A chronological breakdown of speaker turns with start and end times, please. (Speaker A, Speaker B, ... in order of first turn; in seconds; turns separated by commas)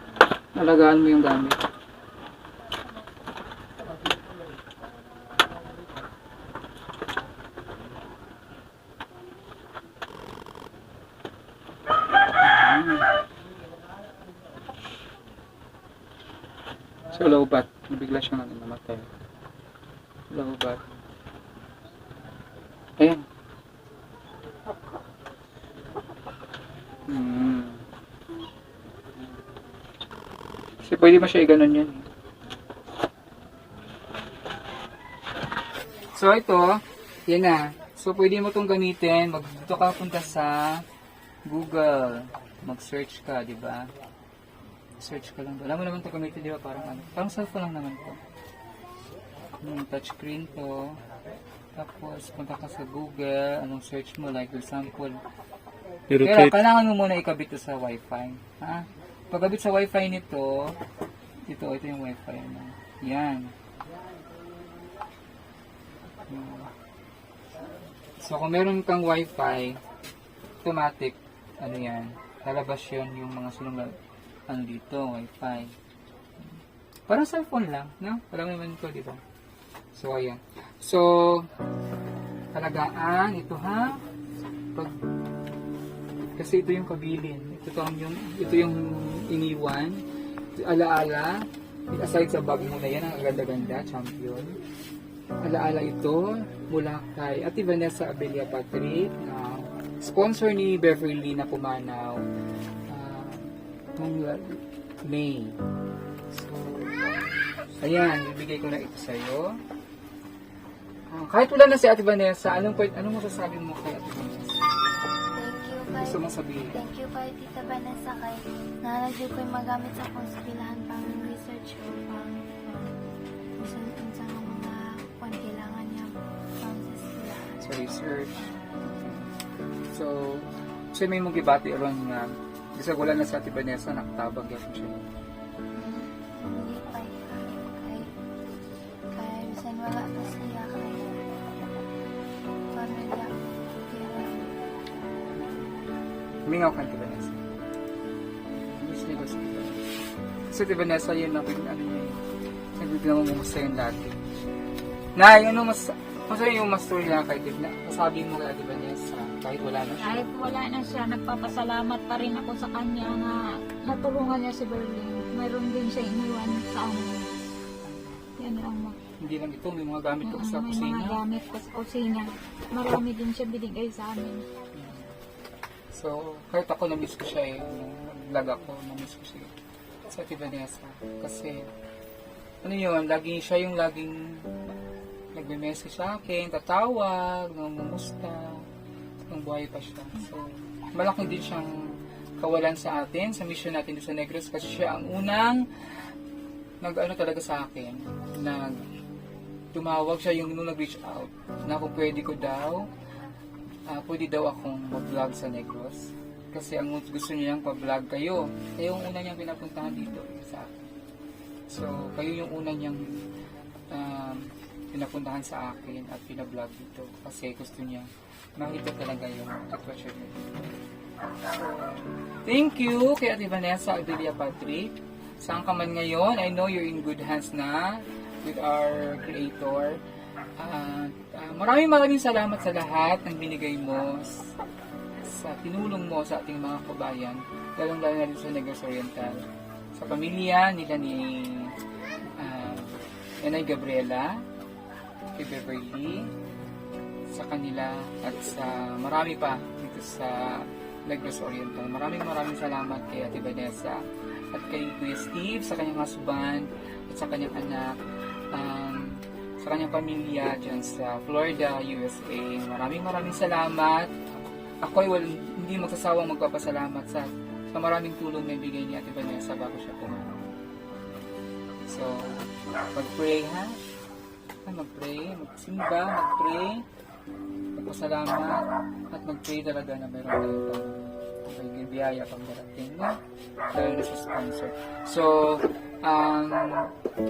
Speaker A: 0.6-1.6, Speaker A: 12.4-13.1, Speaker A: 17.1-19.1, Speaker A: 20.3-20.8, Speaker A: 23.0-23.2, Speaker A: 27.1-27.8, Speaker A: 30.8-32.1, Speaker A: 36.2-40.8, Speaker A: 41.5-43.9, Speaker A: 45.0-48.2, Speaker A: 49.6-51.0, Speaker A: 51.8-55.2, Speaker A: 56.2-60.8, Speaker A: 61.5-63.5, Speaker A: 66.3-66.7, Speaker A: 68.2-69.8, Speaker A: 70.6-74.0, Speaker A: 74.5-75.7, Speaker A: 77.1-79.2, Speaker A: 80.0-81.5, Speaker A: 82.5-84.0, Speaker A: 86.4-90.0, Speaker A: 90.6-94.6, Speaker A: 95.4-102.2, Speaker A: 102.9-105.6, Speaker A: 106.3-107.1, Speaker A: 107.8-109.6, Speaker A: 111.1-114.6, Speaker B: 115.4-116.2, Speaker A: 116.0-116.8, Speaker B: 116.7-123.0, Speaker B: 123.6-127.7, Speaker A: 127.6-128.4, Speaker A: 128.9-129.3, Speaker A: 129.9-135.1, Speaker B: 135.8-138.1, Speaker B: 139.1-141.2, Speaker B: 142.7-143.3, Speaker B: 143.9-144.5, Speaker A: 145.3-145.8, Speaker A: 146.5-147.4, Speaker A: 148.5-149.8, Speaker A: 150.5-152.2, Speaker A: 152.8-154.2, Speaker A: 155.2-160.2, Speaker C: 160.0-167.3, Speaker A: 167.8-168.2, Speaker C: 168.4-169.0, Speaker A: 169.2-171.2, Speaker C: 170.3-174.4, Speaker A: 174.7-175.1, Speaker A: 175.9-179.5, Speaker A: 180.1-181.7, Speaker A: 182.6-184.5, Speaker A: 185.3-188.6, Speaker A: 189.3-191.7, Speaker A: 192.4-195.7, Speaker A: 196.8-198.8, Speaker A: 199.7-202.9, Speaker A: 203.9-210.8, Speaker A: 211.7-213.2, Speaker A: 213.9-220.7, Speaker A: 221.5-230.0, Speaker A: 230.6-234.5, Speaker A: 235.2-239.4, Speaker A: 239.9-241.7, Speaker A: 242.4-244.4, Speaker A: 245.3-246.3, Speaker A: 247.3-258.0, Speaker A: 258.5-264.3, Speaker A: 264.8-270.5, Speaker A: 271.9-273.8, Speaker A: 274.6-276.9, Speaker A: 277.8-283.2, Speaker A: 283.7-286.9